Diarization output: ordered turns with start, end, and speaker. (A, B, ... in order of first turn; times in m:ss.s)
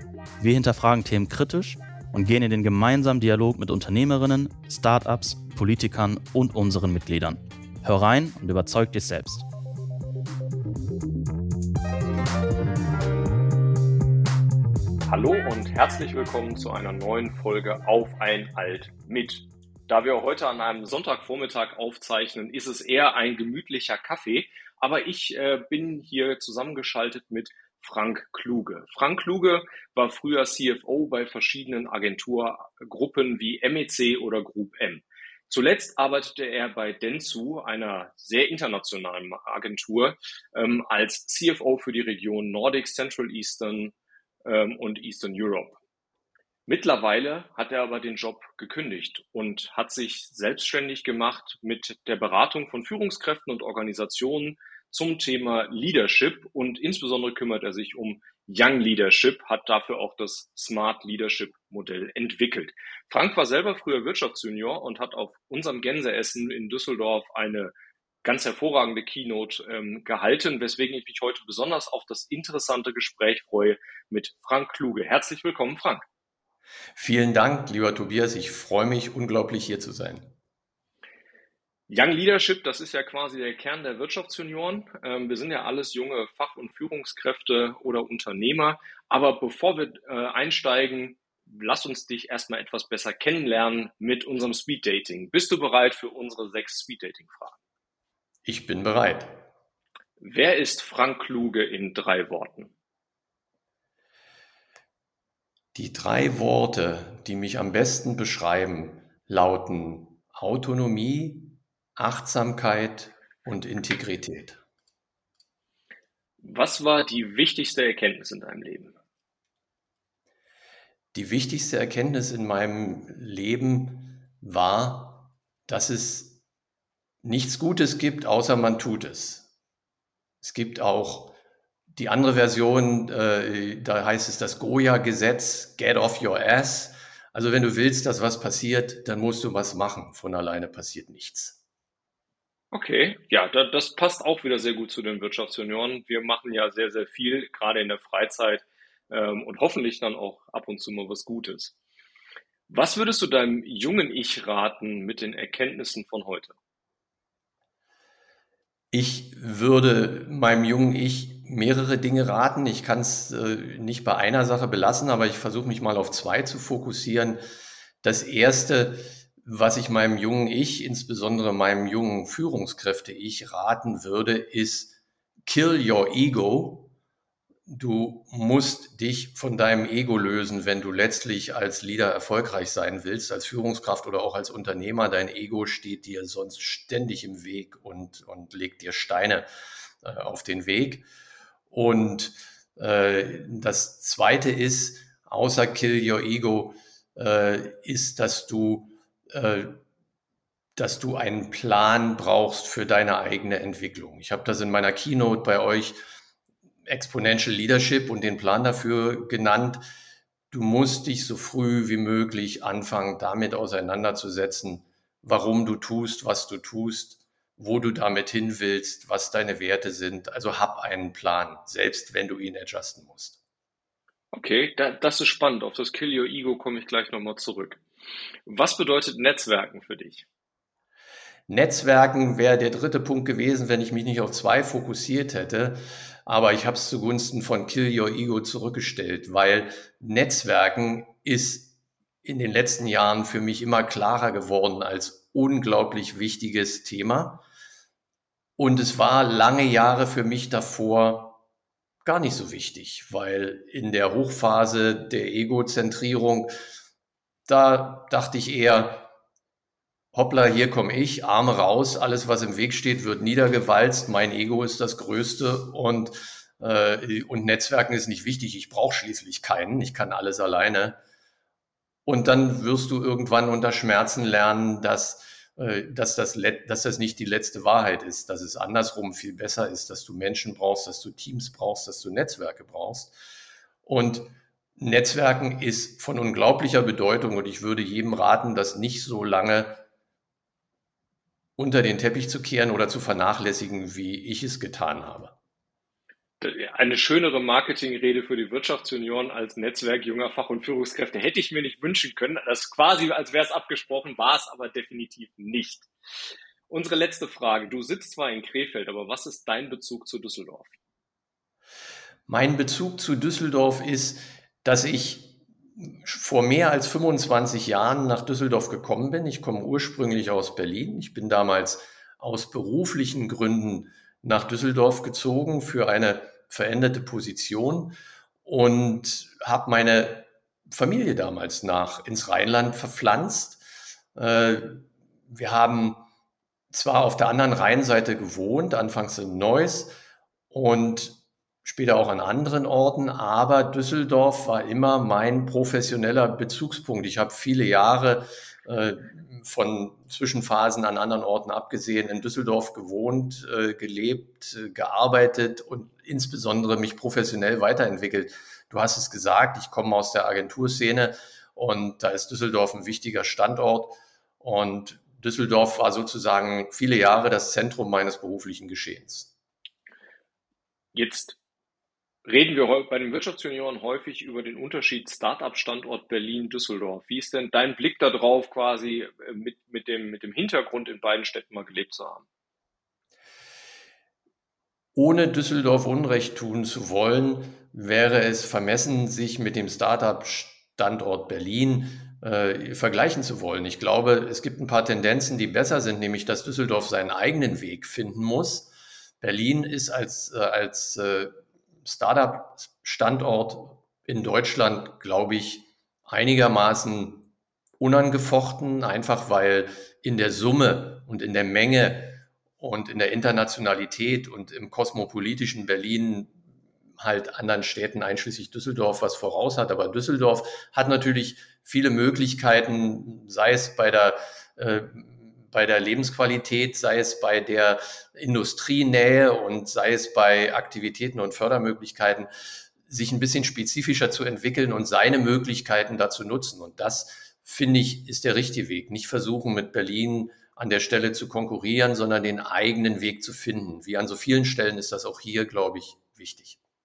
0:00.4-0:09.4 A
0:15.1-0:45.8 B
0:46.7-1:07.7 B
1:08.2-1:16.0 B
1:16.9-1:20.3 C
1:21.9-1:37.6 B
1:38.4-1:39.4 C
1:40.2-1:42.7 B
1:45.7-1:54.6 C
1:56.4-1:58.9 B
2:01.1-2:06.4 C
2:07.2-2:09.5 C
2:10.4-2:11.4 C
2:11.9-2:21.6 C
2:22.7-2:31.7 B
2:32.7-2:36.6 B
2:38.9-2:47.4 C
2:48.0-2:56.9 C
2:57.7-3:09.5 C
3:10.0-3:11.1 C
3:11.7-3:19.8 C
3:20.8-3:26.0 C
3:26.8-3:29.8 C
3:30.5-3:43.4 C
3:44.3-3:47.8 B
3:48.4-3:50.2 B
3:51.5-4:07.4 C
4:08.6-4:11.4 C
4:12.0-4:16.5 C
4:17.5-4:19.1 C
4:20.1-4:31.0 C
4:32.0-4:43.2 C
4:43.8-4:49.8 C
4:51.6-4:55.4 C
4:56.4-5:05.9 B
5:06.7-5:10.7 B
5:12.3-5:33.6 C
5:34.1-5:36.0 C
5:36.7-5:40.0 C
5:40.5-6:09.3 C
6:10.9-6:11.4 B
6:12.2-6:22.2 B
6:24.9-6:56.4 C
6:57.0-7:26.6 C